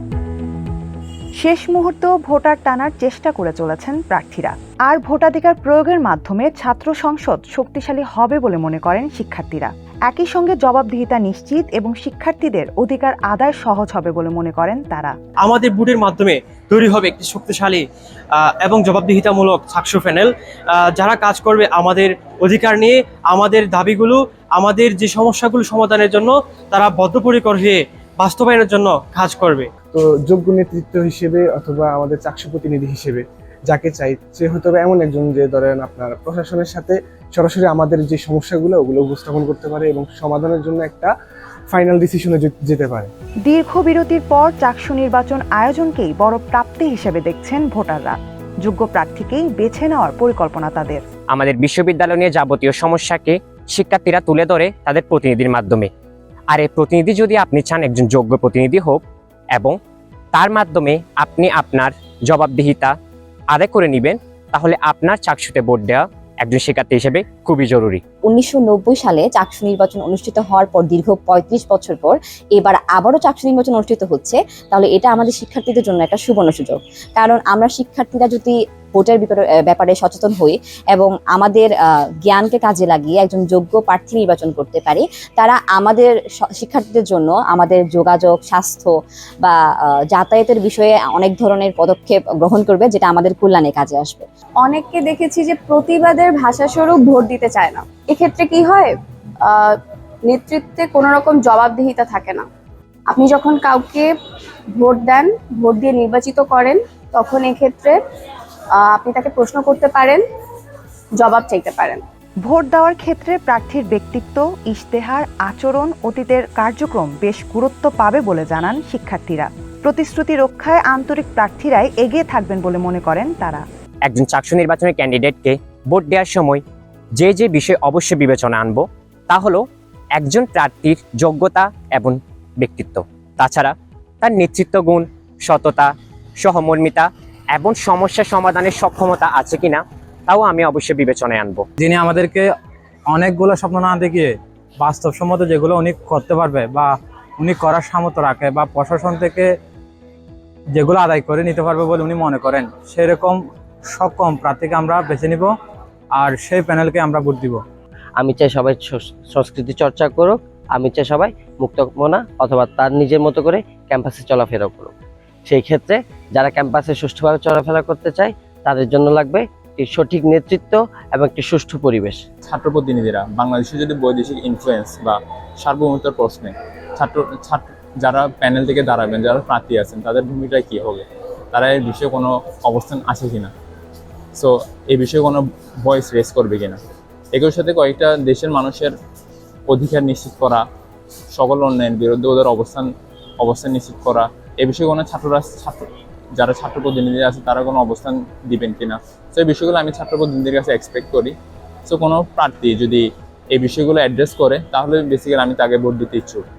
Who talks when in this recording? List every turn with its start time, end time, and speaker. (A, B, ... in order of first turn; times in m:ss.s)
0:01.4-0:15.1 A
0:15.4-0:17.8 B
0:18.4-0:29.7 B
0:29.9-0:41.1 C
0:41.7-0:43.1 C
0:43.5-0:51.0 A
0:51.3-0:55.9 D
0:56.5-0:59.0 D
1:00.4-1:02.9 D
1:03.5-1:08.0 D
1:08.3-1:29.6 E
1:30.1-1:34.3 E
1:34.6-1:42.5 F
1:43.1-1:44.1 F
1:44.8-1:48.0 F
1:48.8-1:50.2 F
1:51.2-1:52.0 F
1:52.4-2:03.6 A
2:04.1-2:06.6 D
2:07.2-2:09.6 D
2:10.2-2:15.9 D
2:16.4-2:21.6 D
2:21.8-2:22.5 G
2:23.1-2:29.5 G
2:30.8-2:33.4 G
2:33.9-2:35.5 G
2:36.2-2:37.6 G
2:38.2-2:44.9 H
2:45.5-2:52.2 H
2:52.5-3:03.5 I
3:04.4-3:06.8 I
3:07.3-3:08.9 I
3:09.7-3:10.6 I
3:11.4-3:12.9 I
3:13.4-3:15.9 I
3:16.4-3:21.3 I
3:21.9-3:23.0 I
3:23.6-3:26.4 I